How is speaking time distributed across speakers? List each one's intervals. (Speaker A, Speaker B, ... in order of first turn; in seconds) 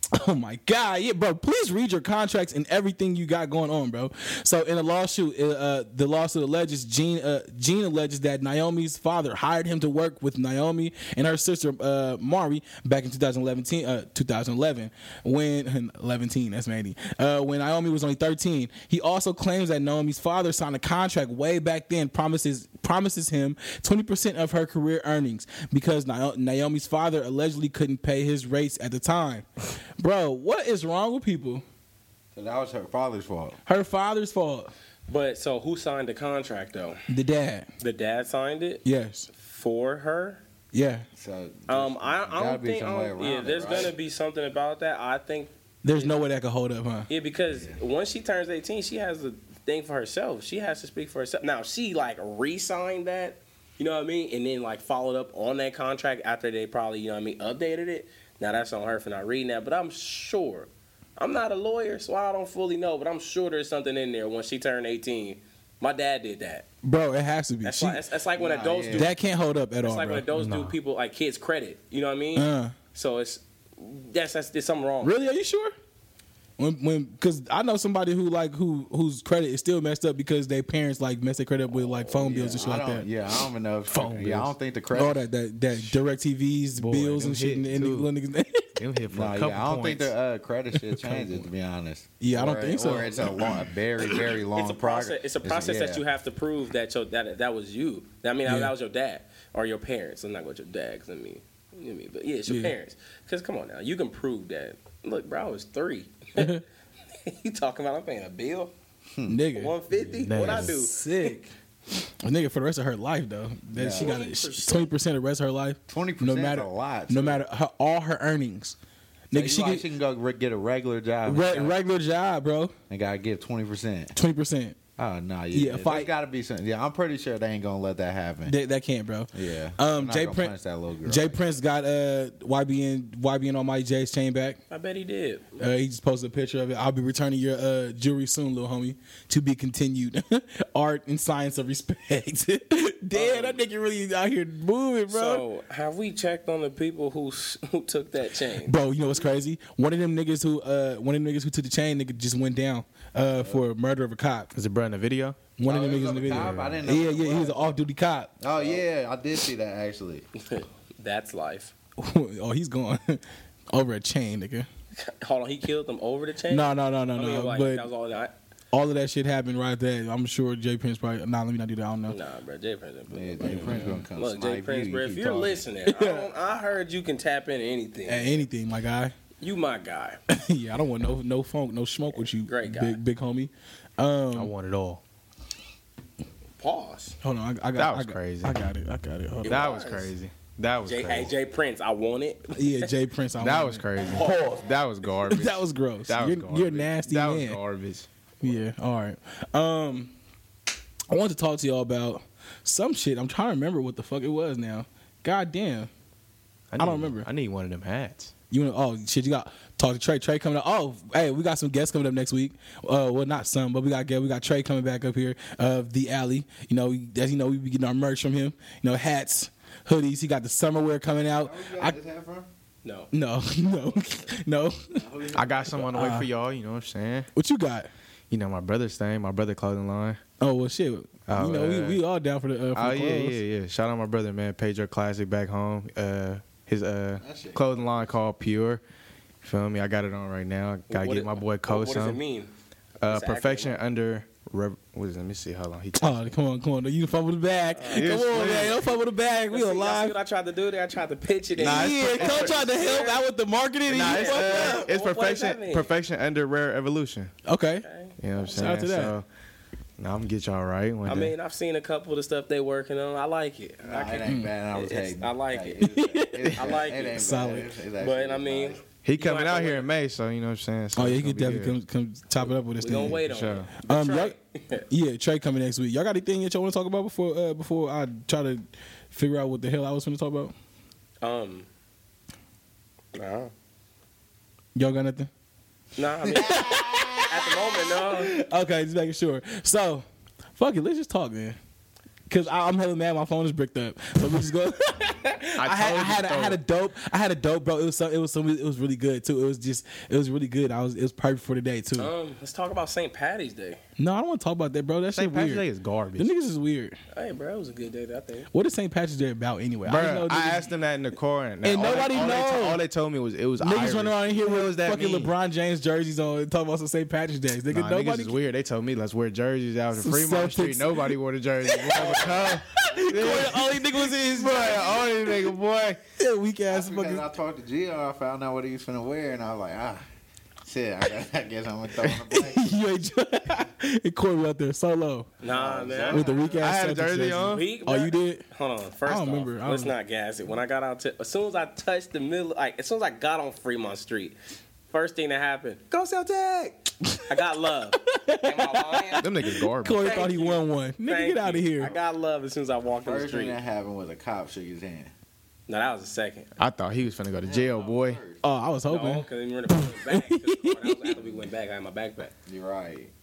Speaker A: 0.1-29.5, 30.0-31.6, 33.6-34.7, 37.1-37.7, 38.8-39.3, 40.7-41.0, 45.8-47.1, 66.8-68.0, 68.9-70.2, 72.3-72.7, 75.0-75.7, 76.6-83.1, 83.9-84.3, 84.9-88.7, 90.8-91.4, 92.2-94.3, 98.5-98.7, 102.5-102.7, 106.4-106.6, 109.2-109.7, 110.3-111.5, 112.0-118.8, 119.3-119.9, 121.2-122.7, 124.1-124.8, 125.5-126.1, 128.4-130.5, 131.0-134.6, 135.6-145.4, 148.6-154.5, 155.6-158.3, 162.0-164.7, 166.5-167.8, 168.7-172.2, 173.5-174.0, 175.9-176.3, 178.1-179.1, 180.3-184.5, 187.2-189.7, 192.5-193.8, 195.3-197.6, 198.4-200.1, 201.1-205.9, 206.8-207.3, 208.5-221.9, 223.1-225.0, 225.8-226.3, 227.3-227.9, 230.4-233.4, 246.0-250.1, 251.6-254.8, 257.5-257.9, 258.5-259.1, 264.2-264.5, 265.8-267.7, 270.9-273.2, 273.8-274.3, 274.9-280.5, 284.7-285.3, 286.4-287.4, 288.0-290.0, 290.6-291.6, 292.3-302.1, 304.0-305.6, 306.2-307.0, 308.5-310.7, 311.6-312.8, 313.6-318.4, 319.9-321.1, 321.7-325.3, 326.2-327.3, 332.1-335.3, 336.1-338.4, 339.1-339.9, 347.1-347.3, 348.1-351.9, 358.4-361.1
Speaker B: 32.3-33.6, 41.1-43.9, 68.4-69.1, 82.0-85.2, 89.1-96.0, 109.1-109.4, 113.7-114.1, 115.9-117.4, 119.3-121.8, 122.9-124.1, 125.0-128.5, 129.3-131.4, 155.6-157.8, 158.4-160.2, 173.1-175.6, 221.4-222.5, 224.9-225.8, 237.2-238.2, 263.8-268.8, 326.7-330.0, 330.6-332.7, 335.4-336.6, 353.0-355.1, 357.4-358.4, 362.4-363.1
Speaker C: 35.1-37.0, 37.8-40.4, 41.7-46.2, 47.1-66.7, 67.6-69.2, 69.8-75.1, 94.5-108.7, 109.5-111.4, 113.9-114.9, 134.7-135.6, 143.1-143.6, 145.1-148.8, 158.5-158.8, 160.4-161.7, 164.9-168.3, 172.1-178.4, 179.4-180.2, 182.1-183.0, 186.6-187.2, 189.4-190.1, 190.8-192.9, 194.1-194.5, 222.8-223.1, 240.9-243.8, 247.7-248.6, 249.3-253.2, 253.9-255.9, 257.8-258.2, 261.1-265.9, 266.5-267.2, 268.0-269.9, 272.4-274.9, 281.2-281.7, 283.1-283.5, 285.9-286.6, 287.3-288.4, 301.9-303.8, 307.1-308.5, 335.4-336.5, 337.5-344.4, 344.9-346.4, 347.3-349.2, 349.8-353.6, 355.7-356.5, 358.9-362.3
Speaker D: 70.3-70.7, 83.9-84.5, 86.8-88.1, 88.8-90.1, 110.2-110.8, 154.5-155.4, 156.3-156.7, 184.3-185.0, 187.7-188.6, 189.4-191.3, 193.4-198.1, 206.7-208.3, 225.3-227.3, 228.3-230.2, 231.3-232.0, 232.7-238.8, 239.4-242.2, 243.0-246.2, 247.9-248.9, 251.6-252.6, 253.9-257.3, 258.2-259.2, 260.0-261.3, 269.0-271.8, 272.9-273.7, 295.6-296.6, 305.1-306.3, 309.8-315.3, 317.7-326.0, 336.6-337.6, 346.1-346.7, 349.2-350.2, 356.6-358.2